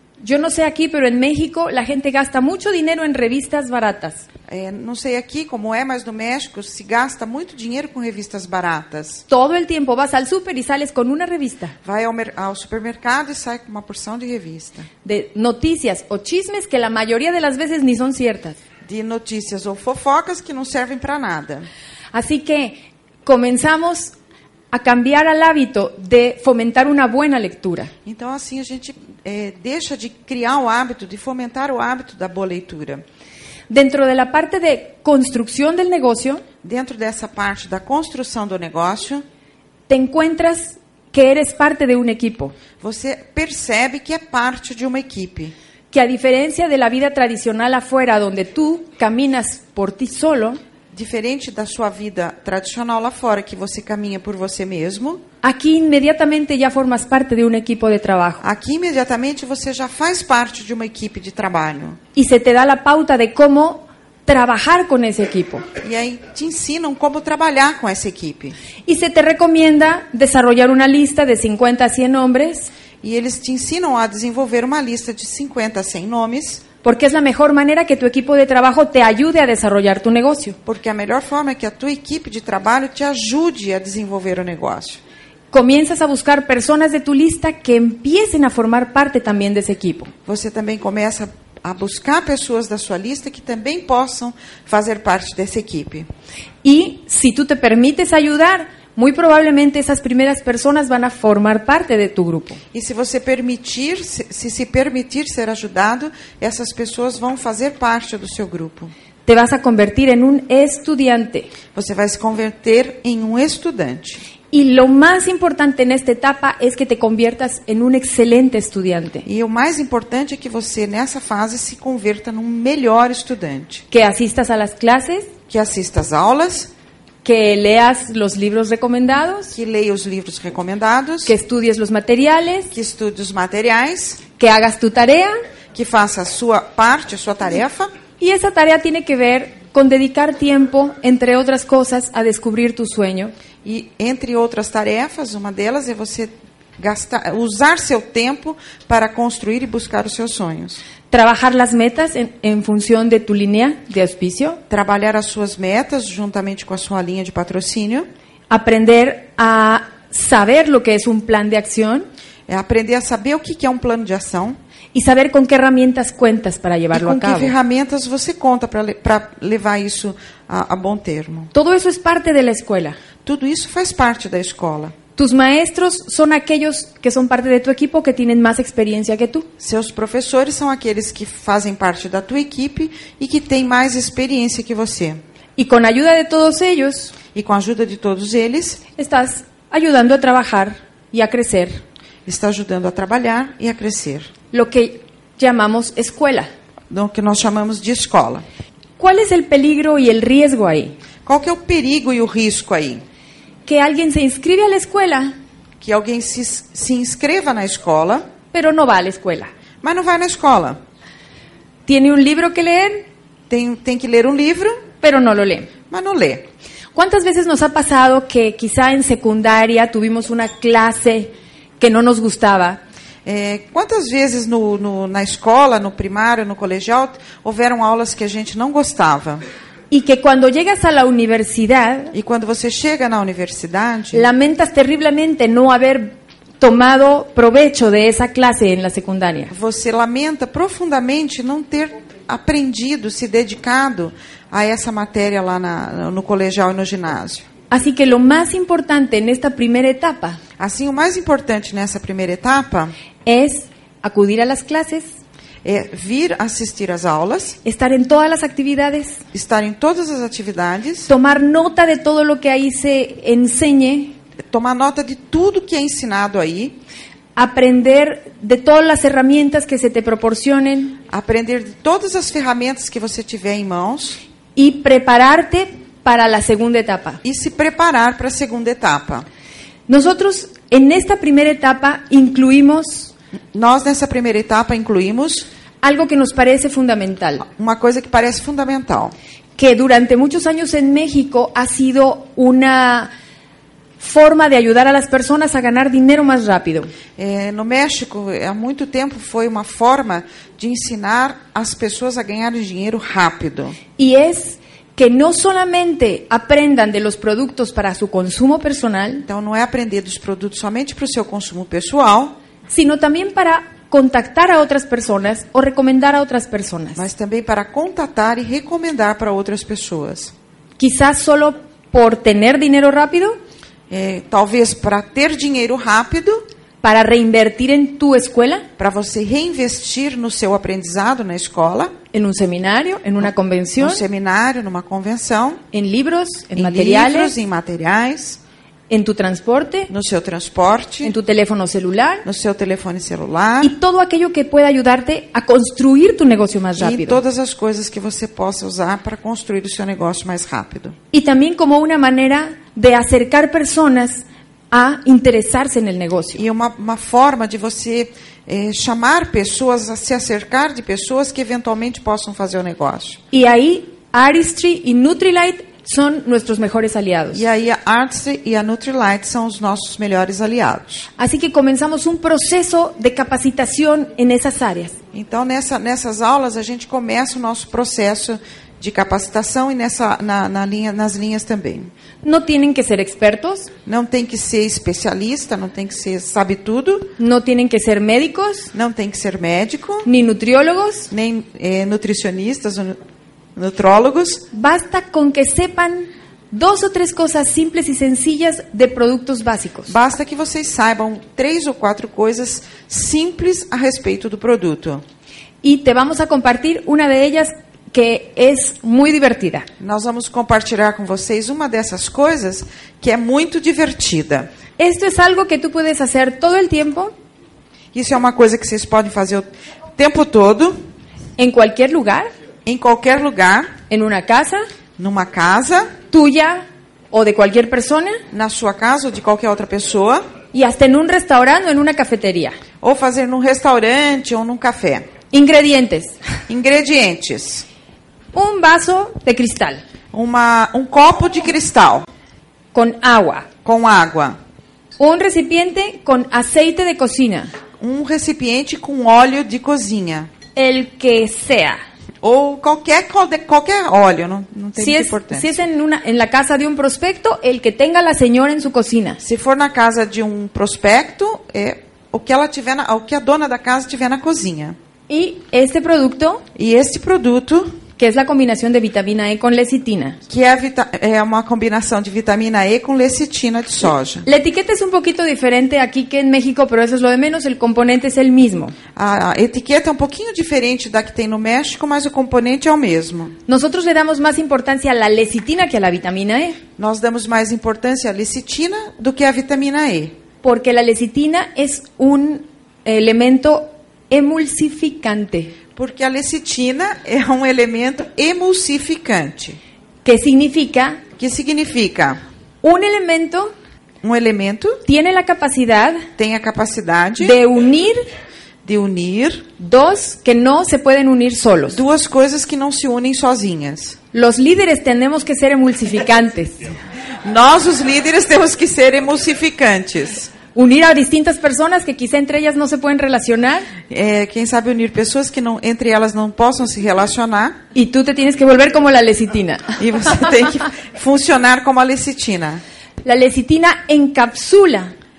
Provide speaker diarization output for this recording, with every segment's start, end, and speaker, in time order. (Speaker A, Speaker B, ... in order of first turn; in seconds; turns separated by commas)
Speaker A: 0.2-4.2, Speaker B: 4.5-9.2, Speaker A: 9.3-11.7, Speaker B: 11.8-14.9, Speaker A: 15.0-18.6, Speaker B: 18.8-21.7, Speaker A: 22.1-24.1, Speaker A: 24.7-27.9, Speaker B: 28.0-33.0, Speaker A: 33.7-36.4, Speaker B: 36.6-39.2, Speaker A: 39.9-42.5, Speaker B: 42.8-45.5, Speaker A: 45.9-50.6, Speaker B: 50.9-55.2, Speaker A: 55.4-58.4, Speaker B: 58.4-62.0, Speaker A: 62.1-65.7, Speaker B: 65.8-68.5, Speaker A: 68.8-72.7, Speaker B: 73.0-76.6, Speaker A: 76.8-80.6, Speaker B: 80.6-85.0, Speaker A: 85.5-90.1, Speaker B: 90.2-96.1, Speaker A: 96.6-102.6, Speaker B: 102.7-108.9, Speaker A: 109.2-111.5, Speaker B: 111.7-114.2, Speaker A: 114.5-119.2, Speaker B: 119.2-123.8, Speaker A: 123.9-125.3, Speaker B: 125.5-126.7, Speaker A: 127.2-129.5, Speaker B: 129.5-131.3, Speaker A: 131.2-132.7, Speaker B: 132.7-134.2, Speaker A: 134.4-135.3, Speaker B: 135.7-137.9, Speaker A: 138.2-143.3, Speaker B: 143.6-150.8, Speaker A: 151.1-154.6, Speaker B: 154.7-158.1, Speaker A: 158.5-162.1, Speaker B: 162.5-164.6, Speaker A: 164.9-167.5, Speaker B: 166.9-171.5, Speaker A: 171.5-173.0, Speaker B: 173.2-174.9, Speaker A: 175.2-179.5, Speaker B: 179.6-185.2, Speaker A: 185.6-187.1, Speaker B: 187.3-188.8, Speaker A: 189.0-191.8, Speaker B: 192.2-194.3, Speaker A: 194.5-196.5, Speaker B: 196.9-198.4, Speaker A: 199.0-200.9, Speaker B: 201.2-203.0, Speaker A: 203.7-205.3, Speaker B: 205.8-208.2, Speaker A: 208.5-209.5, Speaker B: 209.8-210.8, Speaker A: 211.9-213.1, Speaker B: 213.5-214.8, Speaker A: 215.0-215.7, Speaker B: 215.9-216.5, Speaker A: 216.9-222.8, Speaker B: 223.2-229.4, Speaker A: 229.9-232.1, Speaker B: 232.1-234.3, Speaker A: 234.1-239.5, Speaker B: 239.5-247.4, Speaker A: 247.7-250.4, Speaker B: 250.6-252.9, Speaker A: 253.2-255.1, Speaker B: 255.6-257.6, Speaker A: 257.6-259.2, Speaker B: 259.3-261.1, Speaker A: 261.1-264.1, Speaker B: 264.5-266.8, Speaker A: 267.4-271.0, Speaker B: 271.1-274.2, Speaker A: 274.6-277.2, Speaker B: 277.2-279.2, Speaker A: 279.9-283.1, Speaker B: 283.5-285.5, Speaker A: 285.8-287.4, Speaker B: 287.4-289.1, Speaker A: 289.6-293.1, Speaker A: 294.0-296.9, Speaker B: 297.1-303.8, Speaker A: 304.0-309.2, Speaker B: 309.2-312.4, Speaker A: 312.7-317.1, Speaker B: 316.9-320.3, Speaker A: 320.8-323.4, Speaker B: 323.9-326.4, Speaker A: 326.8-328.6, Speaker B: 328.8-331.9, Speaker A: 332.1-334.0, Speaker B: 333.8-335.6, Speaker A: 335.7-337.3, Speaker B: 336.6-338.4, Speaker A: 338.9-339.9, Speaker B: 339.9-341.1, Speaker A: 341.0-342.2, Speaker B: 342.2-343.7, Speaker A: 343.6-347.2, Speaker B: 346.8-350.9, Speaker A: 351.1-356.4, Speaker B: 356.3-363.2, Speaker A: 363.3-367.4, Speaker B: 367.3-371.1, Speaker A: 371.2-374.9, Speaker B: 375.1-381.9, Speaker A: 382.2-383.7, Speaker B: 383.9-387.1, Speaker A: 387.2-388.7, Speaker B: 388.7-390.1, Speaker A: 390.0-391.1, Speaker B: 391.1-393.0, Speaker B: 393.5-394.4, Speaker A: 394.5-399.9, Speaker B: 399.9-405.0, Speaker A: 405.6-409.7, Speaker B: 409.8-414.5, Speaker A: 414.8-417.1, Speaker B: 417.9-420.8, Speaker A: 421.4-422.3, Speaker B: 422.6-423.7, Speaker A: 423.9-424.6, Speaker B: 425.0-425.9, Speaker A: 426.1-428.2, Speaker B: 428.3-430.2, Speaker A: 430.5-432.6, Speaker B: 432.8-435.1, Speaker A: 435.3-436.1, Speaker B: 436.5-437.6, Speaker A: 438.3-439.8, Speaker B: 440.1-442.1, Speaker A: 442.7-443.5, Speaker B: 443.6-444.4, Speaker A: 445.0-447.5, Speaker B: 447.8-450.3, Speaker A: 450.6-451.8, Speaker B: 452.2-455.5, Speaker A: 454.8-459.2, Speaker B: 459.2-464.8, Speaker A: 465.1-466.4, Speaker B: 466.6-467.8, Speaker A: 468.0-470.2, Speaker B: 470.3-474.2, Speaker A: 474.2-478.7, Speaker B: 478.9-483.3, Speaker A: 483.5-486.6, Speaker B: 486.8-490.1, Speaker A: 490.4-495.5, Speaker B: 495.7-499.6, Speaker A: 500.0-501.0, Speaker B: 501.2-502.2, Speaker A: 502.6-503.5, Speaker B: 504.0-504.8, Speaker A: 504.8-506.0, Speaker B: 506.2-507.4, Speaker A: 507.2-508.0, Speaker B: 508.6-509.5, Speaker A: 509.6-511.8, Speaker B: 511.7-514.0, Speaker A: 514.1-516.7, Speaker B: 517.2-520.3, Speaker A: 520.5-523.7, Speaker B: 523.9-527.6, Speaker A: 527.7-529.8, Speaker B: 529.8-532.6, Speaker A: 533.0-534.9